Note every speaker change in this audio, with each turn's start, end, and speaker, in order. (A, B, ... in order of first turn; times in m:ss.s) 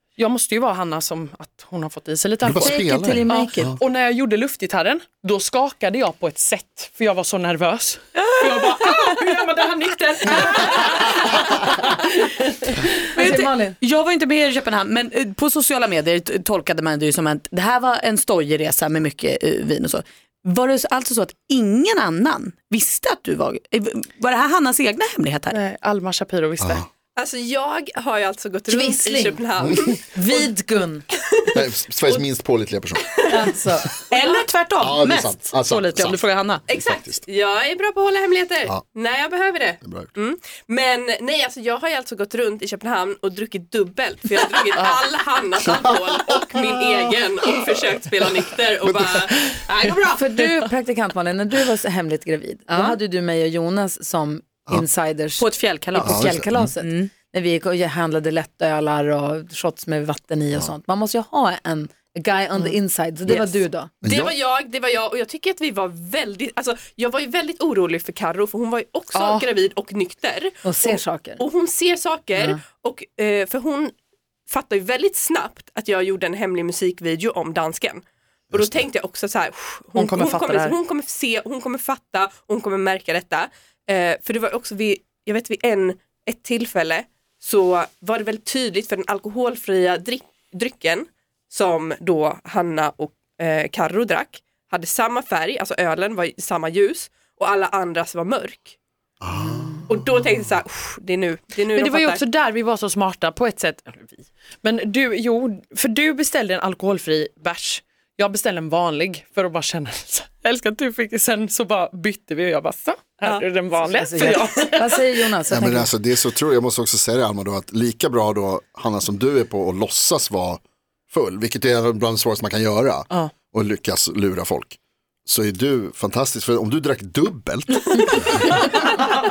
0:00.2-0:12.9 A
0:02.4-0:03.8 B
0:02.6-0:03.8 C
0:08.1-0:09.1 D
0:13.1-0:25.6 D
0:13.2-0:13.8 C
0:25.5-0:26.8 A
0:26.6-0:26.9 B
0:27.2-0:30.5 E
0:28.7-0:29.4 C
0:29.6-0:29.9 B
0:30.1-0:31.0 C
0:31.5-0:33.0 B
0:33.3-0:33.9 C
0:34.1-0:36.6 D
0:34.2-0:34.4 E
0:34.8-0:36.2 B
0:36.7-0:50.5 E
0:36.7-0:37.2 B
0:39.8-0:40.1 B
0:44.7-0:45.0 A
0:48.8-0:49.3 B
0:50.1-1:03.9 C
0:52.7-0:53.0 D
0:55.4-0:57.1 D
0:56.0-0:56.7 B
1:03.3-1:13.9 E
1:04.0-1:04.3 B
1:09.1-1:09.4 C
1:10.6-1:11.4 C
1:14.5-1:38.8 E
1:18.5-1:18.8 B
1:19.9-1:20.8 A
1:39.2-1:39.9 B
1:39.9-1:42.2 E
1:41.7-1:55.0 A
1:53.9-1:55.9 C
1:55.5-2:08.5 B